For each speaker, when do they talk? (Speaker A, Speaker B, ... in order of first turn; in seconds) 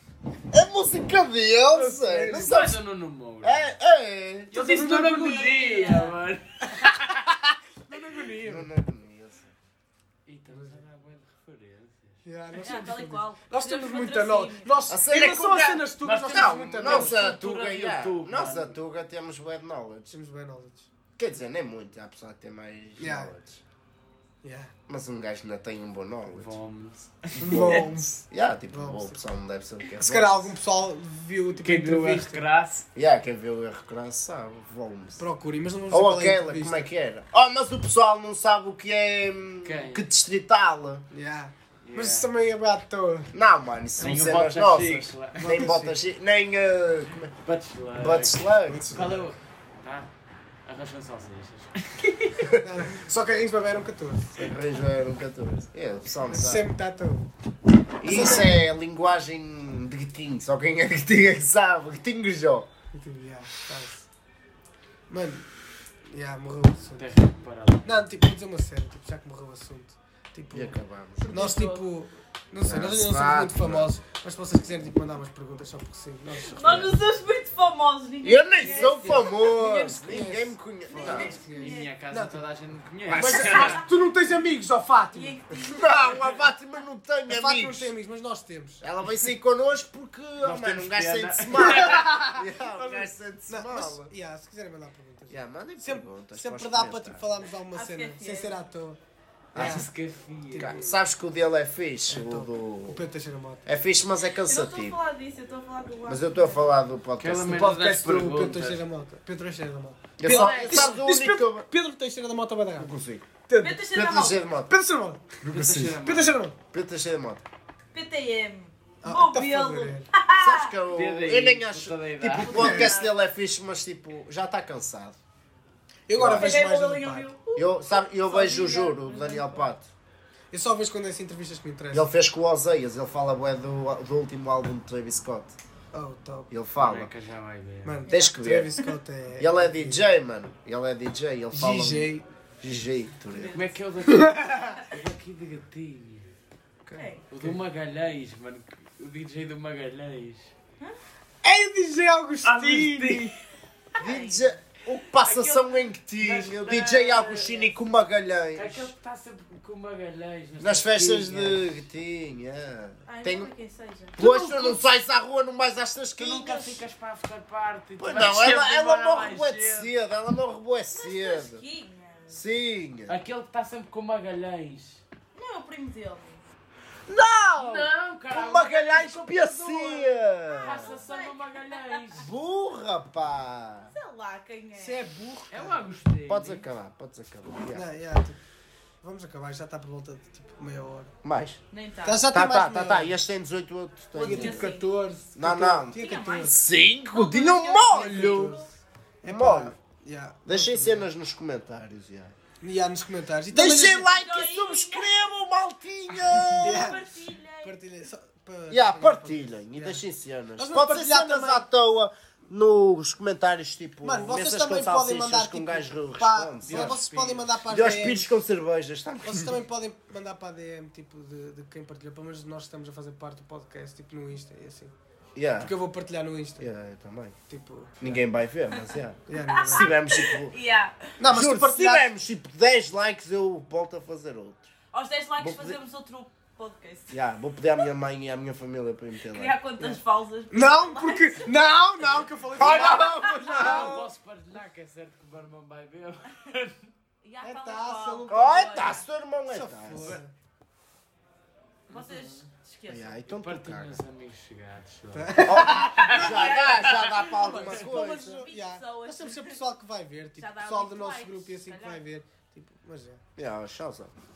Speaker A: 0.5-2.8, 3.4-4.5, 8.4-9.5, 14.9-20.1, 21.2-23.6, 24.9-26.5, 27.4-30.5, 33.0-35.2, 35.9-41.1, 43.3-47.3, 48.0-49.0, 54.4-56.7, 58.0-62.7, 70.5-71.3, 72.6-73.9, 78.2-81.3, 83.1-83.8, 85.5-87.9, 88.8-94.1, 95.3-97.4, 99.5-99.9, 100.6-103.0, 103.7-105.0, 106.1-107.7, 110.2-111.7, 112.8-113.3, 113.9-114.7, 115.5-116.0, 116.7-117.4, 120.4-125.2, 126.1-126.6, 127.6-129.9, 131.9-135.6, 136.5-137.1, 138.1-138.8, 139.4-143.7, 154.0-158.9, 160.6-163.5, 164.2-166.8, 168.0-171.6, 172.3-173.2, 177.1-180.9, 182.2-183.9, 186.3-187.9, 191.2-191.6, 192.3-194.7, 195.4-198.6, 199.2-199.8, 200.5-202.3, 203.5-207.0, 208.7-217.0, 217.7-219.6, 225.3-225.7, 226.6-227.4, 228.0-230.6, 231.3-234.7, 235.4-235.8, 237.1-239.6, 242.5-244.1, 248.3-250.2, 252.9-254.0, 255.4-258.4, 263.4-264.1
Speaker B: 1.7-2.6, 4.5-5.5, 7.9-8.7, 10.5-10.8, 12.2-17.2, 20.1-20.9, 23.0-23.3, 24.4-24.7, 27.4-29.2, 30.0-32.4, 35.2-36.9, 41.1-43.3, 44.0-44.4, 45.4-46.0, 48.7-49.3, 52.5-54.4, 56.3-57.3, 58.0-58.6, 62.9-64.1, 65.1-65.5, 66.1-67.1, 67.8-70.8, 71.3-77.0, 78.6-79.3, 80.0-82.4, 83.1-85.4, 87.3-88.8, 91.6-99.0, 99.5-99.9, 100.5-100.9, 102.1-103.7, 107.5-113.0, 113.5-114.1, 114.7-115.3, 116.0-116.6, 119.0-120.1, 122.5-123.0, 126.1-127.3, 130.5-132.1, 135.9-136.5, 137.8-140.1, 141.5-142.3, 144.1-144.8, 146.9-147.6, 151.4-153.3, 179.5-180.1, 184.8-185.8, 187.7-188.4, 189.0-191.1, 192.1-193.2, 194.2-196.6, 197.9-198.7, 199.2-201.1, 202.6-204.1, 206.5-207.0, 207.6-210.0, 210.6-211.7, 214.0-218.4, 219.2-224.9, 225.6-226.7, 227.5-228.2, 229.3-229.9, 231.2-232.1, 240.5-244.0, 247.4-248.7, 249.5-250.3, 255.1-263.2
Speaker C: 2.3-3.7, 4.5-7.3, 10.3-12.8, 16.0-18.8, 26.3-27.9, 31.5-32.9, 39.6-40.1, 41.8-42.3, 44.0-45.7, 47.4-50.1, 50.7-52.5, 67.0-67.9, 79.4-80.2, 81.0-83.8, 90.4-92.2, 99.5-100.9, 107.2-108.8, 110.2-111.0, 115.5-116.3, 120.9-122.8, 136.8-138.0, 143.5-146.3, 147.3-150.5, 152.4-153.4, 155.2-155.7, 156.2-157.7, 158.6-161.8, 164.2-164.8, 166.2-169.9, 173.1-175.0, 177.6-179.8, 180.6-182.3, 185.5-186.7, 216.7-217.5, 243.4-246.8, 251.9-252.5, 253.3-257.0
Speaker D: 4.8-6.2, 12.6-14.7, 71.2-71.8, 76.5-79.6, 80.9-81.9, 85.1-86.3, 97.7-98.6, 104.5-106.7, 113.6-114.4, 117.9-120.7, 122.4-123.1, 126.4-129.7, 138.1-138.4, 143.3-143.7, 147.0-147.2, 154.0-154.4, 155.3-155.5, 163.1-164.2, 170.9-172.4, 175.3-176.4, 180.5-182.0, 183.9-185.1, 191.7-192.3, 194.1-194.9, 195.9-196.6, 197.1-198.7, 204.1-205.1, 206.3-207.8, 229.6-231.1, 234.9-237.1, 239.3-241.5, 242.6-243.4, 247.2-249.0, 251.9-253.2, 257.7-259.6, 260.4-262.0